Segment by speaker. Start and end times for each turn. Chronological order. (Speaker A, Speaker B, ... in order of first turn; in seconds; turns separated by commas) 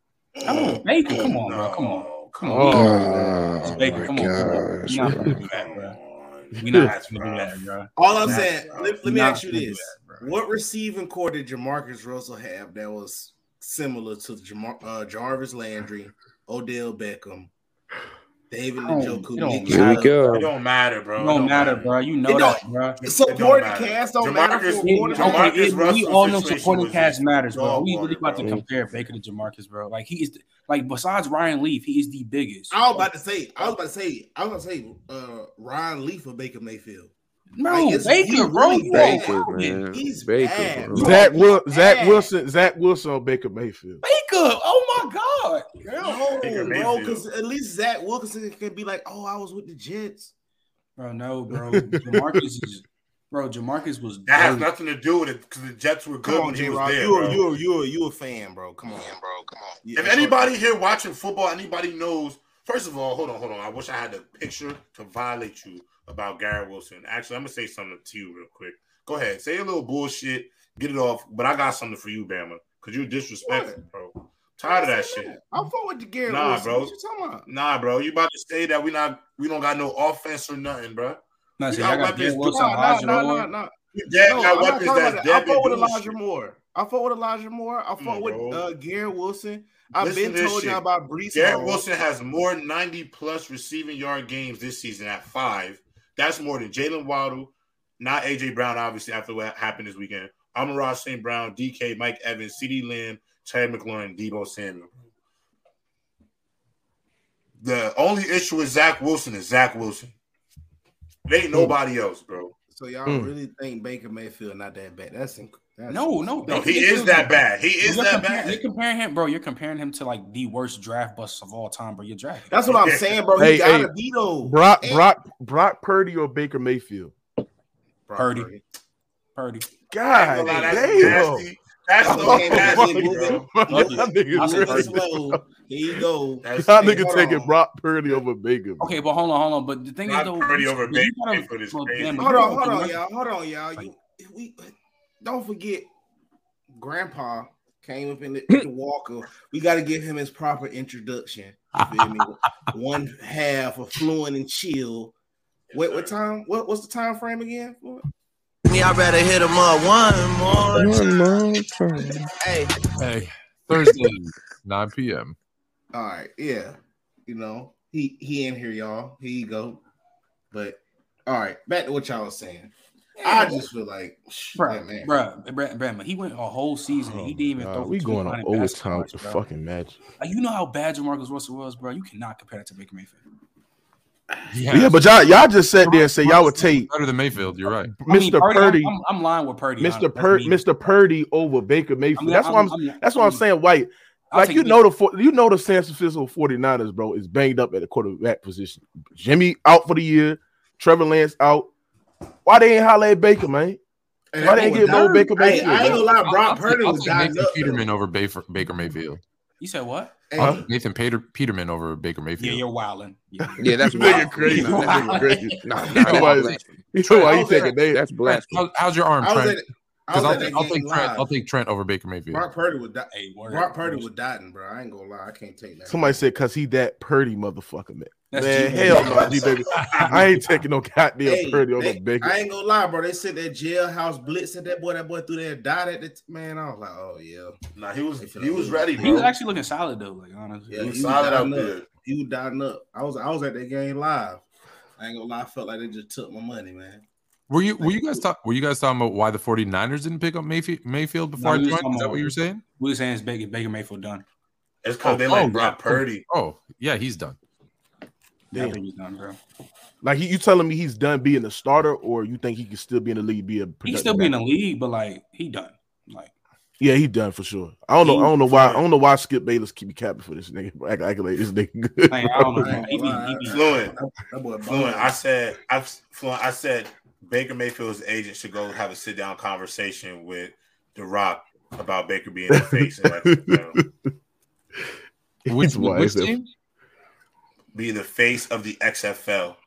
Speaker A: 0.3-2.8, Speaker B: 0.4-0.8, Speaker C: 0.8-3.1, Speaker D: 2.4-4.1, Speaker E: 2.6-5.4, Speaker C: 3.6-6.0, Speaker A: 5.2-7.5, Speaker D: 6.6-6.9, Speaker C: 6.6-8.5, Speaker B: 8.0-17.5, Speaker A: 8.2-9.0, Speaker C: 9.0-10.3, Speaker B: 18.5-20.1, Speaker C: 18.8-20.4, Speaker E: 19.7-20.5, Speaker A: 20.3-22.0, Speaker C: 21.2-23.0, Speaker B: 22.3-25.5, Speaker A: 23.0-28.5, Speaker C: 24.8-33.1, Speaker B: 32.7-37.1, Speaker C: 37.5-39.8, Speaker B: 37.6-42.3, Speaker E: 38.9-41.2, Speaker D: 40.9-44.0, Speaker C: 44.0-46.7, Speaker B: 45.8-50.3, Speaker A: 46.4-47.2, Speaker C: 51.0-54.7, Speaker D: 51.5-52.4, Speaker A: 54.3-57.4, Speaker B: 56.2-60.5, Speaker A: 60.0-75.3, Speaker B: 73.4-73.8, Speaker B: 74.6-77.5, Speaker A: 76.2-76.9, Speaker A: 77.5-82.4, Speaker C: 81.6-83.5, Speaker B: 82.4-83.7, Speaker A: 83.9-86.2, Speaker B: 84.2-91.8, Speaker A: 88.0-88.6, Speaker A: 90.0-104.9, Speaker A: 107.6-110.1, Speaker A: 111.3-112.5, Speaker B: 112.7-116.6, Speaker D: 113.0-113.3, Speaker C: 115.9-122.6, Speaker A: 116.5-118.6, Speaker B: 122.5-125.0, Speaker A: 122.7-123.1, Speaker D: 123.3-123.9, Speaker D: 124.4-127.1, Speaker B: 128.1-128.6, Speaker C: 128.1-128.6, Speaker C: 129.3-129.7, Speaker D: 129.9-131.5, Speaker A: 130.1-134.0, Speaker B: 130.6-131.2, Speaker B: 132.0-137.5, Speaker D: 132.0-135.4, Speaker C: 133.7-135.0, Speaker A: 136.4-137.2, Speaker D: 136.6-138.9, Speaker C: 138.8-143.0, Speaker A: 140.1-142.6, Speaker B: 142.2-145.9, Speaker B: 146.7-155.1, Speaker A: 155.7-156.1, Speaker B: 155.7-158.0, Speaker F: 158.7-161.4, Speaker E: 160.7-162.3, Speaker B: 162.4-162.7, Speaker G: 163.0-165.3, Speaker B: 165.9-169.8, Speaker B: 170.5-175.1, Speaker C: 174.6-179.4, Speaker D: 177.1-180.0, Speaker C: 180.2-183.2, Speaker G: 184.5-187.9, Speaker D: 184.7-186.9, Speaker D: 187.9-188.9, Speaker C: 188.1-190.6, Speaker D: 189.8-201.7, Speaker C: 192.2-193.4, Speaker C: 194.3-194.8, Speaker D: 202.4-203.8, Speaker B: 204.3-207.9, Speaker D: 204.4-206.1, Speaker C: 204.4-205.3, Speaker G: 206.2-209.2, Speaker C: 209.6-210.2, Speaker B: 210.3-210.7, Speaker G: 210.4-212.6, Speaker D: 210.4-210.6, Speaker C: 212.4-216.2, Speaker E: 213.6-216.8, Speaker D: 213.8-218.2, Speaker G: 215.9-219.6, Speaker B: 217.2-217.7, Speaker E: 217.7-218.7, Speaker B: 219.2-221.3, Speaker G: 220.1-222.4, Speaker B: 222.3-226.2, Speaker C: 223.1-224.1, Speaker D: 225.9-232.3, Speaker C: 228.3-230.6, Speaker A: 228.9-230.3, Speaker B: 231.2-237.6, Speaker A: 237.8-239.3, Speaker B: 238.2-239.3, Speaker C: 239.0-241.1, Speaker B: 240.7-244.4, Speaker A: 240.8-241.8, Speaker B: 245.0-247.0, Speaker G: 247.5-252.6, Speaker B: 247.8-248.2, Speaker C: 251.4-254.2, Speaker A: 254.8-256.2, Speaker G: 255.2-257.4, Speaker C: 258.5-259.4, Speaker D: 258.5-258.8, Speaker D: 260.0-264.3, Speaker C: 263.8-266.3, Speaker D: 266.8-272.9, Speaker C: 268.0-268.8, Speaker C: 272.1-273.7, Speaker B: 272.6-275.1, Speaker A: 273.4-273.9, Speaker A: 274.6-283.8, Speaker D: 282.5-283.9, Speaker D: 285.4-286.3, Speaker G: 285.5-286.5, Speaker A: 287.7-289.6